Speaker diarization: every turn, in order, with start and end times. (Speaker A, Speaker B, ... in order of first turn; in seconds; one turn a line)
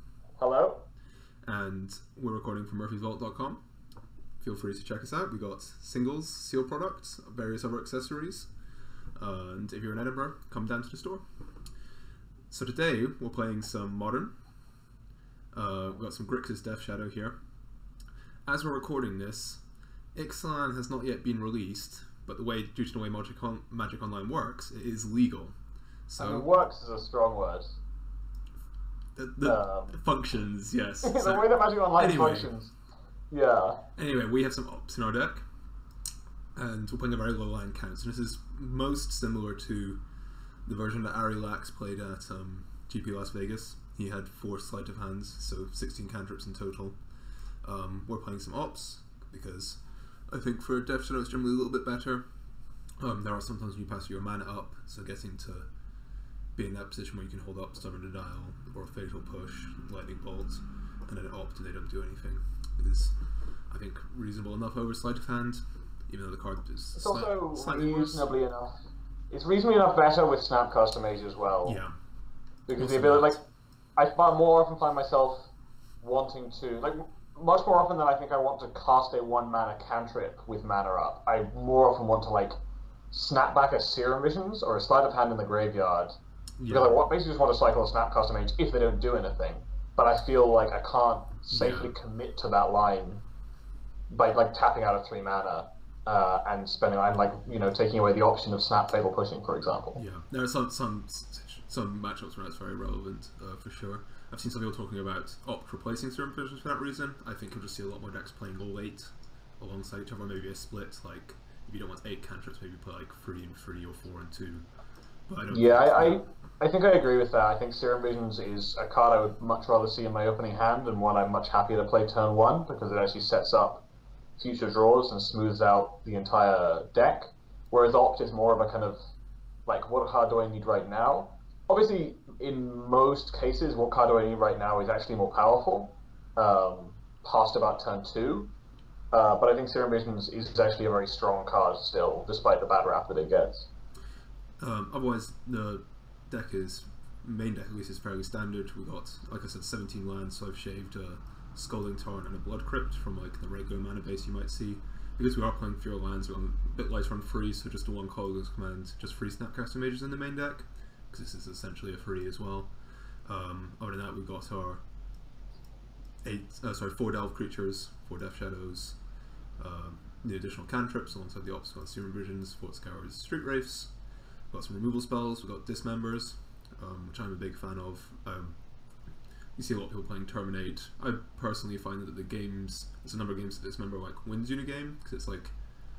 Speaker A: 0.4-0.9
Speaker B: 1.4-3.6
Speaker B: 4.4-8.5
Speaker B: 9.2-11.2
Speaker B: 12.5-14.3
Speaker B: 15.5-17.3
Speaker B: 18.5-19.6
Speaker B: 20.1-25.5
Speaker B: 26.1-26.5
Speaker A: 26.2-27.8
Speaker B: 29.1-32.5
Speaker A: 29.4-30.0
Speaker A: 31.0-32.7
Speaker A: 33.3-33.8
Speaker B: 34.0-35.5
Speaker B: 36.5-40.0
Speaker B: 40.6-52.3
Speaker B: 53.0-55.7
Speaker B: 56.5-63.2
Speaker B: 63.7-68.3
Speaker A: 67.0-68.7
Speaker A: 69.3-71.8
Speaker B: 71.6-71.9
Speaker A: 72.7-73.4
Speaker B: 72.8-73.4
Speaker A: 74.0-82.5
Speaker A: 83.1-86.1
Speaker B: 86.6-87.0
Speaker A: 86.7-93.2
Speaker B: 91.5-91.9
Speaker A: 94.1-100.0
Speaker B: 100.0-114.7
Speaker B: 115.3-116.2
Speaker A: 115.5-123.8
Speaker A: 124.4-129.0
Speaker A: 129.7-138.5
Speaker A: 139.1-143.7
Speaker B: 144.6-162.7
Speaker B: 163.2-164.8
Speaker B: 166.2-169.0
Speaker B: 169.6-173.9
Speaker B: 174.5-178.7
Speaker B: 179.5-185.6